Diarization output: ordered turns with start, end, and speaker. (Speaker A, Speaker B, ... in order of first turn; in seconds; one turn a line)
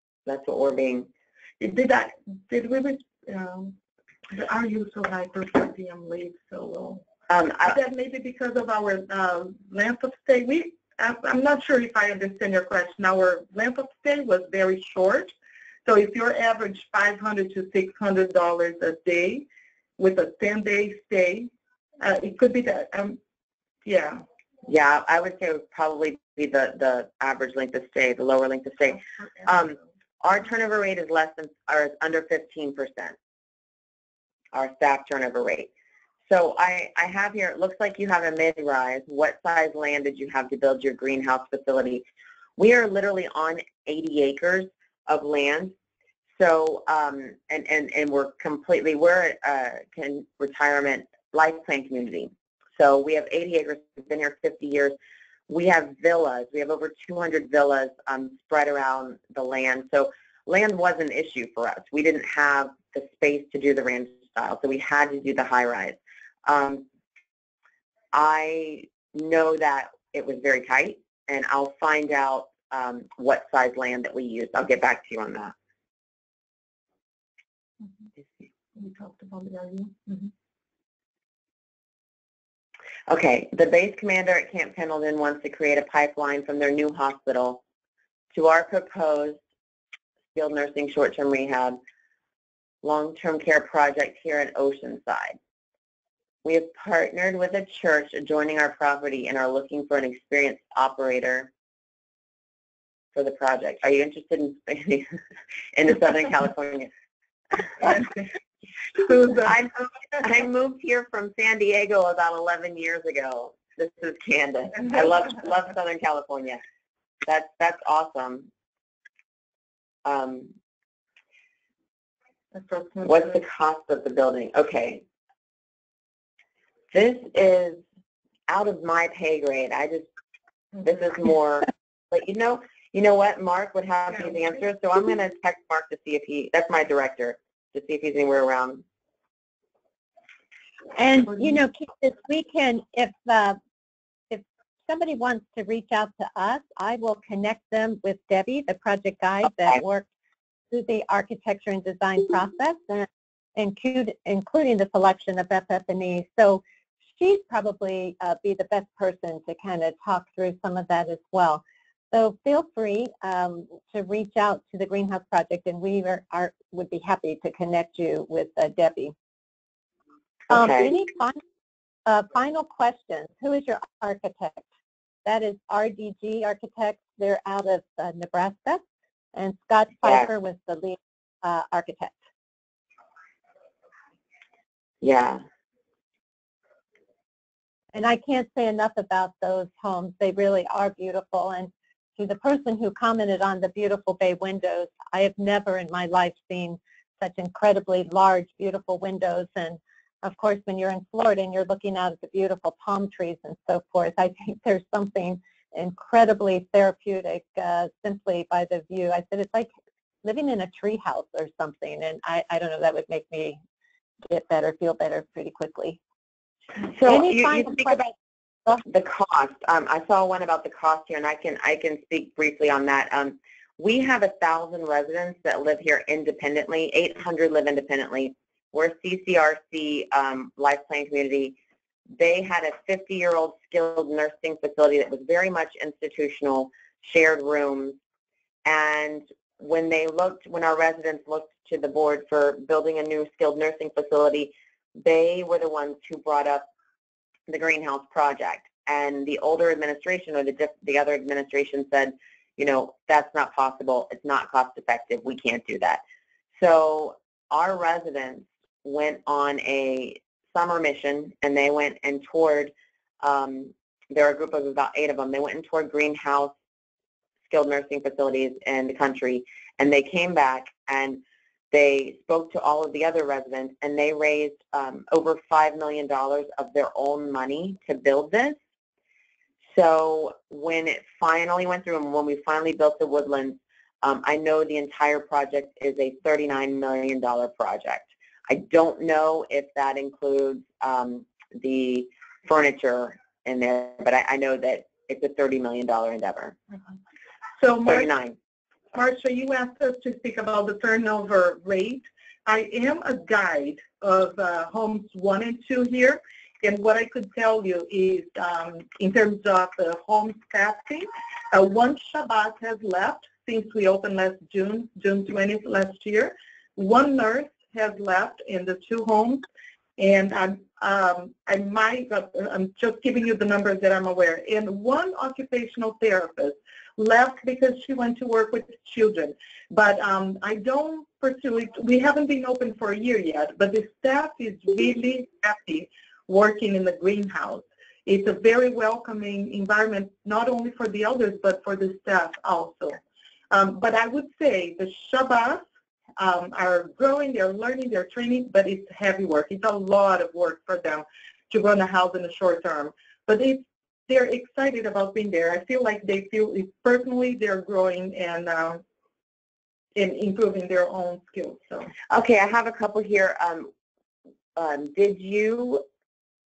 Speaker A: 0.2-1.1
Speaker B: 1.6-3.7
Speaker B: 4.3-7.0
Speaker A: 7.3-7.8
Speaker B: 7.6-15.3
Speaker B: 15.8-19.5
Speaker B: 20.0-23.2
Speaker B: 23.8-24.2
Speaker A: 24.6-33.1
Speaker A: 34.5-35.7
Speaker A: 36.3-42.0
Speaker A: 42.6-45.7
Speaker A: 46.4-54.9
Speaker A: 55.5-66.8
Speaker A: 68.1-75.5
Speaker B: 78.8-80.3
Speaker A: 83.1-87.6
Speaker A: 88.3-89.4
Speaker A: 90.3-91.8
Speaker A: 92.8-95.4
Speaker A: 96.4-101.5
Speaker A: 103.1-105.2
Speaker A: 105.7-106.9
Speaker A: 107.5-108.1
Speaker B: 109.0-109.5
Speaker A: 109.3-116.6
Speaker A: 117.2-118.5
Speaker A: 120.0-120.5
Speaker B: 122.5-123.4
Speaker A: 123.0-125.0
Speaker A: 126.9-127.8
Speaker A: 128.5-130.1
Speaker A: 130.8-138.8
Speaker C: 140.9-143.6
Speaker C: 144.3-150.1
Speaker C: 150.7-156.6
Speaker C: 157.2-169.1
Speaker A: 170.5-170.9
Speaker C: 170.5-171.4
Speaker C: 172.1-174.7
Speaker C: 175.2-178.8
Speaker C: 179.3-182.2
Speaker A: 185.0-185.4
Speaker C: 187.9-209.7
Speaker C: 210.2-213.6
Speaker C: 214.3-216.0
Speaker A: 216.9-218.1
Speaker C: 217.0-218.1
Speaker A: 218.8-231.6
Speaker A: 232.2-238.0
Speaker A: 238.6-246.7
Speaker A: 247.5-256.0
Speaker A: 256.6-266.5
Speaker A: 267.5-278.6
Speaker A: 279.7-296.6
Speaker B: 297.6-298.1
Speaker A: 297.9-298.4
Speaker B: 298.9-319.4
Speaker B: 320.0-343.0
Speaker B: 343.5-345.6
Speaker B: 346.2-358.8
Speaker B: 359.9-361.9
Speaker A: 362.1-363.7
Speaker A: 364.6-365.8